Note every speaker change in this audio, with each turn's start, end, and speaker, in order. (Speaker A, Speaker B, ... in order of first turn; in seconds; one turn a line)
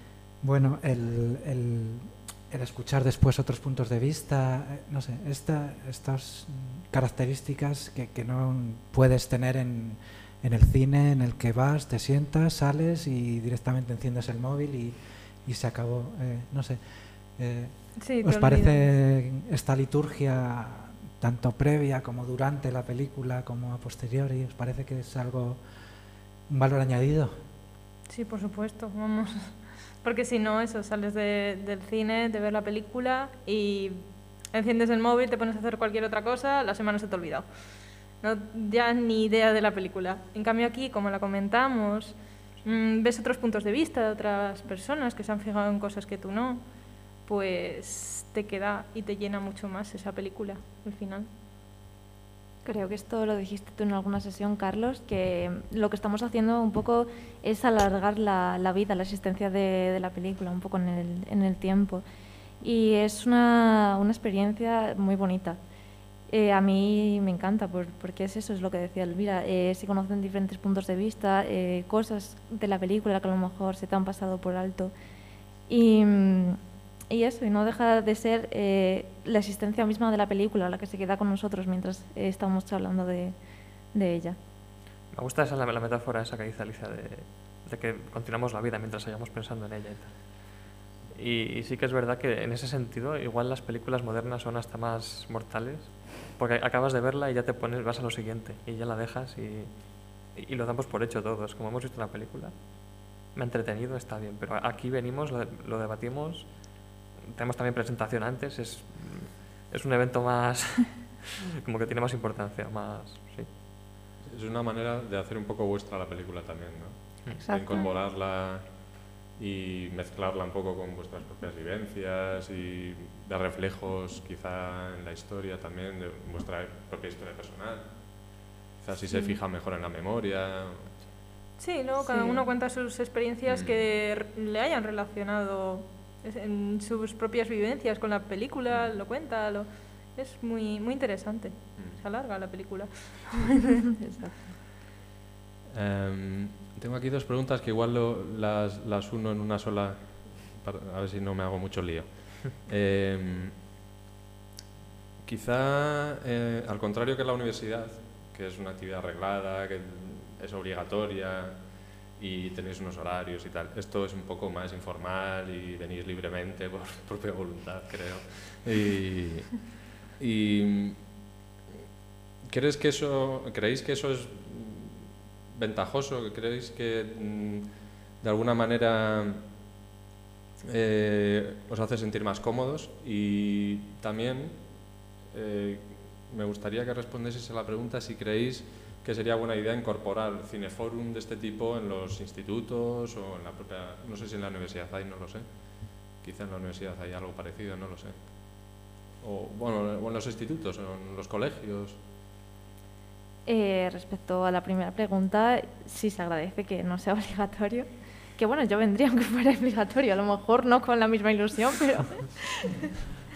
Speaker A: 0.4-16.8
Speaker A: 17.4-25.6
Speaker B: 18.0-18.9
Speaker A: 26.5-27.4
Speaker B: 28.1-46.7
Speaker B: 47.2-51.3
Speaker C: 52.6-62.0
Speaker C: 62.6-65.6
Speaker C: 66.3-74.9
Speaker C: 75.7-83.3
Speaker C: 83.9-84.4
Speaker D: 85.1-113.5
Speaker E: 114.3-128.3
Speaker D: 117.2-117.8
Speaker C: 117.4-117.9
Speaker E: 128.8-131.0
Speaker B: 131.6-143.8
Speaker C: 132.0-132.5
Speaker E: 133.5-133.9
Speaker E: 141.8-142.0
Speaker C: 144.0-144.5
Speaker E: 145.7-153.6
Speaker E: 155.2-171.1
Speaker E: 172.4-179.5
Speaker E: 180.6-195.5
Speaker E: 196.1-198.7
Speaker E: 199.2-202.0
Speaker C: 203.5-212.8